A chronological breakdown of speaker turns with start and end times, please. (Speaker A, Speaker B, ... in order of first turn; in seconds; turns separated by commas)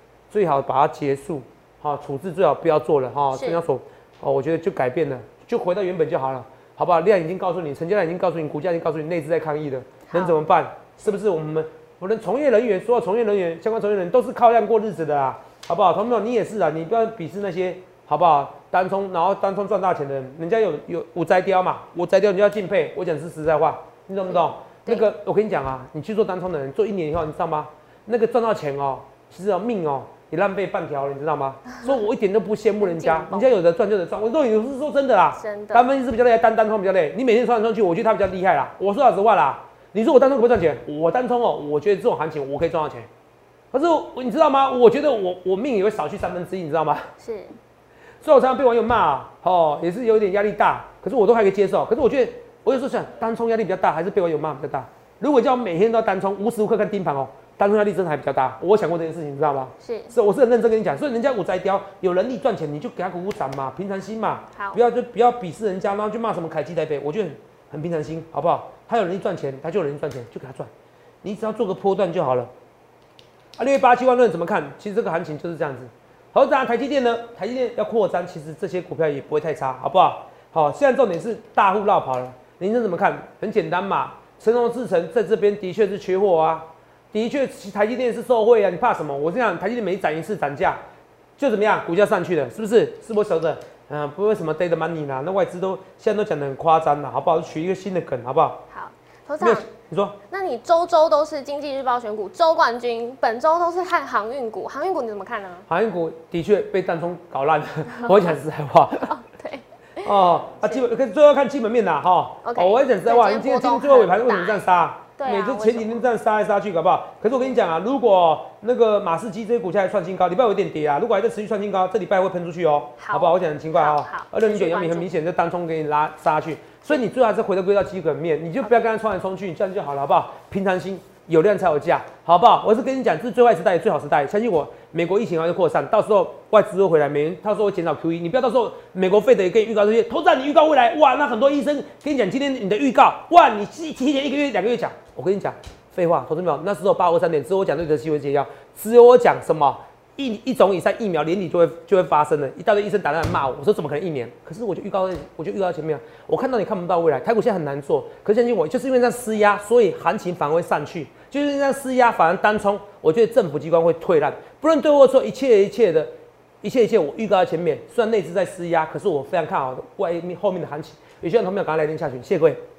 Speaker A: 0.3-43.1, Speaker B: 3.3-3.6, Speaker B: 10.1-10.3, Speaker B: 24.3-25.1, Speaker B: 32.8-33.5, Speaker B: 35.4-35.9, Speaker A: 43.7-47.1, Speaker B: 47.2-47.6, Speaker A: 48.2-70.7, Speaker B: 59.8-60.1, Speaker B: 64.5-64.8, Speaker A: 71.2-72.5, Speaker A: 73.6-90.8, Speaker A: 91.4-98.6, Speaker B: 98.7-99.7, Speaker A: 99.4-100.2, Speaker B: 100.3-105.7, Speaker A: 105.7-109.1, Speaker B: 109.1-110.1, Speaker A: 110.0-172.6, Speaker B: 112.4-116.0, Speaker B: 123.0-125.1, Speaker B: 128.6-128.9